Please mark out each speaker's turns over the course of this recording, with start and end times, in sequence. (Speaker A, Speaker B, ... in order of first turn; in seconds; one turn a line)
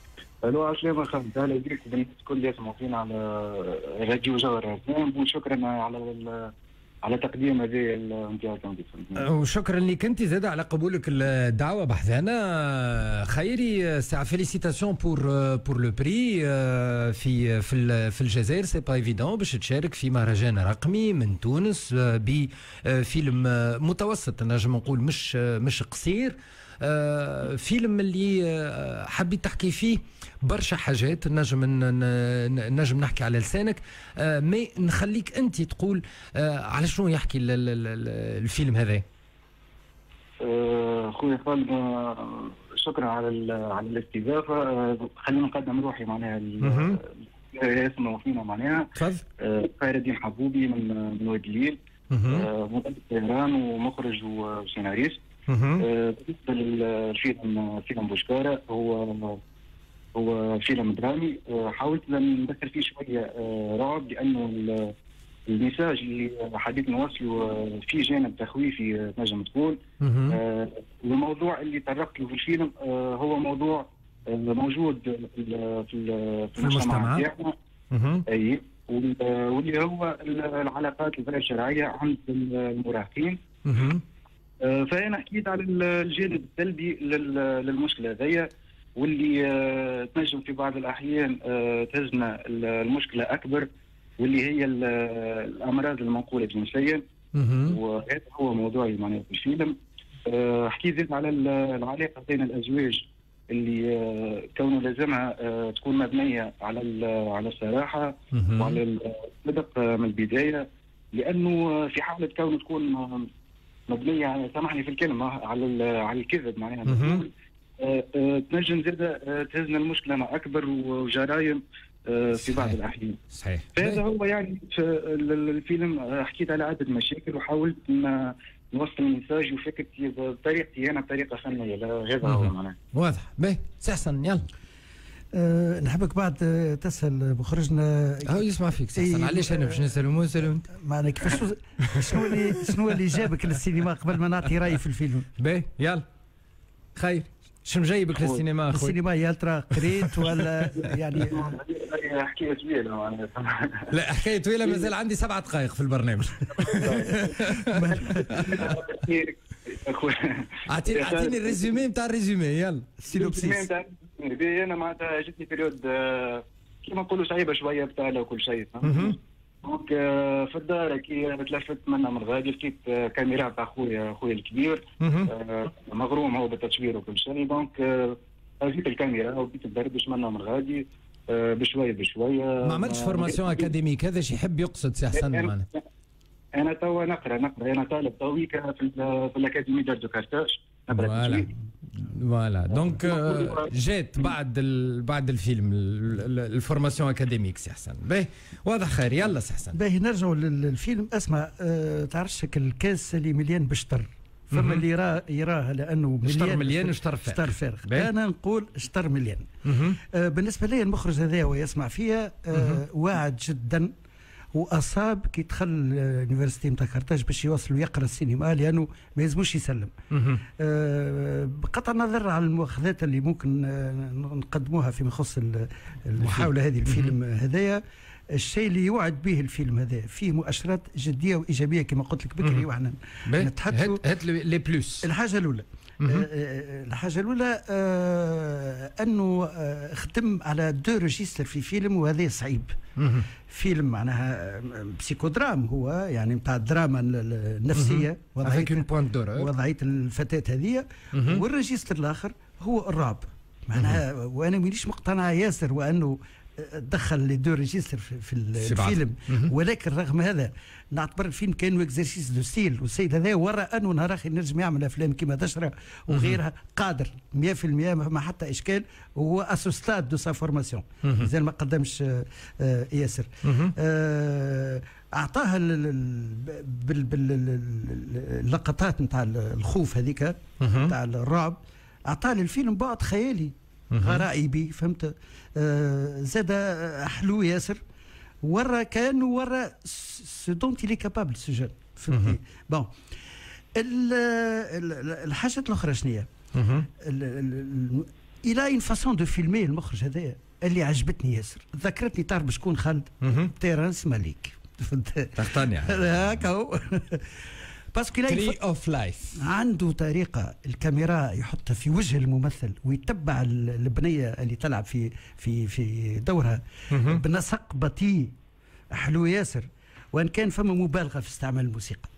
Speaker A: 0.4-6.5
Speaker A: 7.0-9.3
Speaker B: 9.2-39.0
Speaker A: 40.4-51.8
Speaker B: 46.6-47.0
Speaker B: 49.0-49.2
Speaker B: 52.1-52.5
Speaker A: 52.3-55.2
Speaker B: 55.5-55.9
Speaker A: 55.8-59.4
Speaker A: 60.1-64.9
Speaker A: 65.5-77.5
Speaker B: 70.0-70.4
Speaker B: 76.6-77.2
Speaker B: 77.9-78.2
Speaker A: 78.3-83.4
Speaker B: 83.7-84.0
Speaker A: 84.6-93.7
Speaker A: 94.2-97.0
Speaker B: 97.3-97.8
Speaker A: 97.7-99.8
Speaker A: 100.3-113.3
Speaker B: 108.3-108.8
Speaker A: 113.9-123.2
Speaker B: 116.9-117.2
Speaker B: 122.4-122.8
Speaker B: 123.3-124.0
Speaker A: 123.8-132.8
Speaker B: 132.2-134.4
Speaker C: 135.3-140.0
Speaker B: 138.2-140.7
Speaker C: 140.7-145.3
Speaker B: 141.9-142.4
Speaker B: 145.4-146.0
Speaker B: 147.0-149.0
Speaker C: 148.7-151.6
Speaker B: 149.7-150.7
Speaker A: 151.2-153.9
Speaker B: 153.9-158.8
Speaker A: 154.6-154.9
Speaker A: 156.5-161.8
Speaker C: 157.7-158.6
Speaker B: 160.7-163.1
Speaker C: 163.0-163.7
Speaker A: 163.1-183.7
Speaker B: 168.8-169.2
Speaker B: 175.0-175.3
Speaker B: 182.6-185.7
Speaker A: 185.1-185.8
Speaker A: 186.6-191.5
Speaker B: 190.9-199.8
Speaker A: 192.7-193.7
Speaker C: 199.7-209.5
Speaker B: 204.5-204.8
Speaker B: 206.2-208.1
Speaker B: 209.7-210.0
Speaker C: 210.0-213.9
Speaker B: 212.5-212.8
Speaker C: 214.5-219.9
Speaker B: 220.1-220.4
Speaker C: 220.6-227.8
Speaker B: 226.2-227.1
Speaker C: 228.3-234.0
Speaker B: 233.3-235.1
Speaker C: 235.0-242.8
Speaker B: 236.0-236.3
Speaker B: 243.0-243.3
Speaker C: 243.5-287.8
Speaker B: 247.8-249.5
Speaker B: 251.1-251.4
Speaker B: 253.8-254.0
Speaker B: 258.6-259.5
Speaker B: 266.1-266.4
Speaker B: 271.0-271.3
Speaker B: 273.4-273.7
Speaker B: 280.6-280.9
Speaker B: 283.9-284.2
Speaker C: 288.4-292.9
Speaker B: 292.1-292.4
Speaker C: 293.8-296.3
Speaker B: 296.5-296.9
Speaker C: 297.0-308.6
Speaker B: 303.2-303.5
Speaker B: 305.4-306.1
Speaker B: 308.3-309.4
Speaker C: 309.4-318.3
Speaker B: 316.9-317.2
Speaker C: 318.9-322.1